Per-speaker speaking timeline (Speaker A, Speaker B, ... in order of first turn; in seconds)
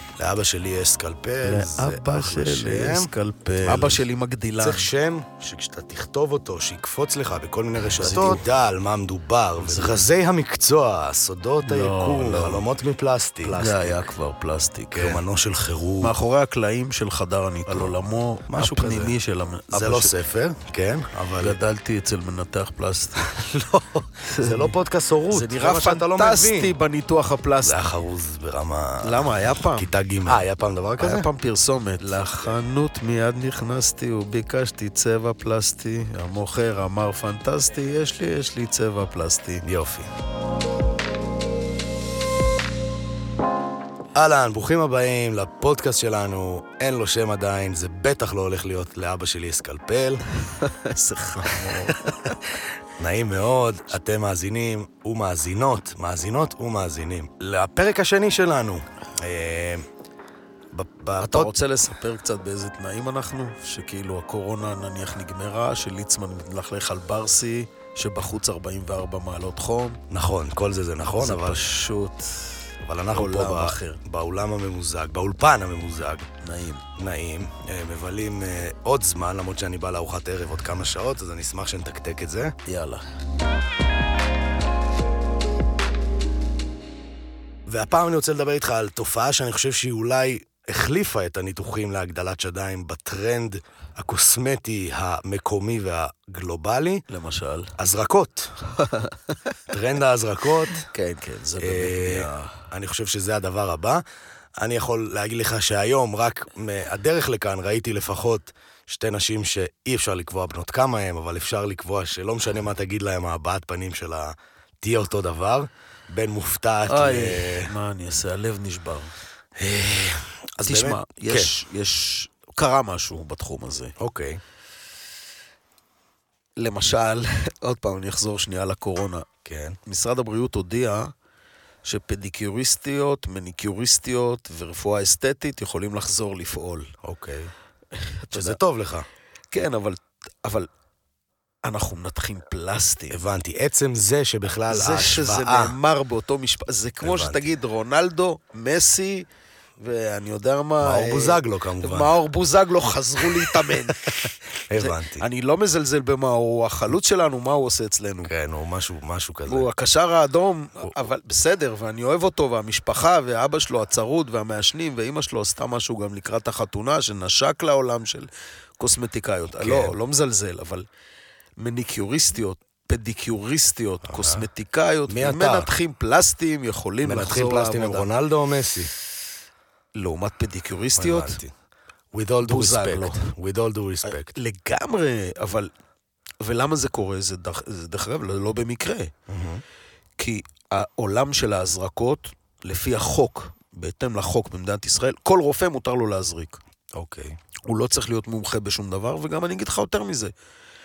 Speaker A: 0.2-4.1, 4.6-14.1, 14.9-16.1, 17.7-17.9, 18.5-19.1, 19.7-21.6, 23.2-26.7, 27.6-31.3, 32.0-32.6, 39.6-40.1, 44.1-50.2, 51.4-59.9, 60.7-61.5, 70.1-71.8, 72.8-76.3, 77.0-82.5, 87.7-97.0, 97.8-98.5, 99.7-100.9, 101.6-104.0, 104.6-117.7, 119.6-121.5, 124.0-124.4, 129.4-129.8, 137.0-137.5, 138.3-139.1, 143.1-145.7, 147.0-147.4, 150.8-152.2, 153.2-155.2, 158.2-159.7, 169.5-170.0, 174.1-174.5, 175.1-175.7, 177.0-178.9, 180.9-181.5, 182.1-184.3, 189.3-189.6, 196.9-197.4
Speaker B: 1.4-4.9, 8.0-8.4, 9.6-10.1, 11.6-12.7, 13.4-15.2, 16.0-20.1, 21.4-23.3, 24.2-24.7, 25.3-27.8, 29.0-30.3, 31.0-39.6, 50.5-52.3, 61.2-70.0, 71.2-72.6, 73.1-74.0, 76.4-76.8, 82.7-83.0, 97.1-97.7, 98.8-99.3, 100.8-102.6, 116.9-119.1, 120.6-124.0, 126.6-129.3, 129.8-131.1, 131.8-136.9, 137.9-138.6, 139.5-140.7, 141.6-143.2, 144.7-149.3, 149.8-158.3, 159.5-170.9, 171.6-178.1, 179.9-181.4, 182.4-183.3, 184.0-185.7, 186.4-189.1, 190.2-196.6, 197.7-200.3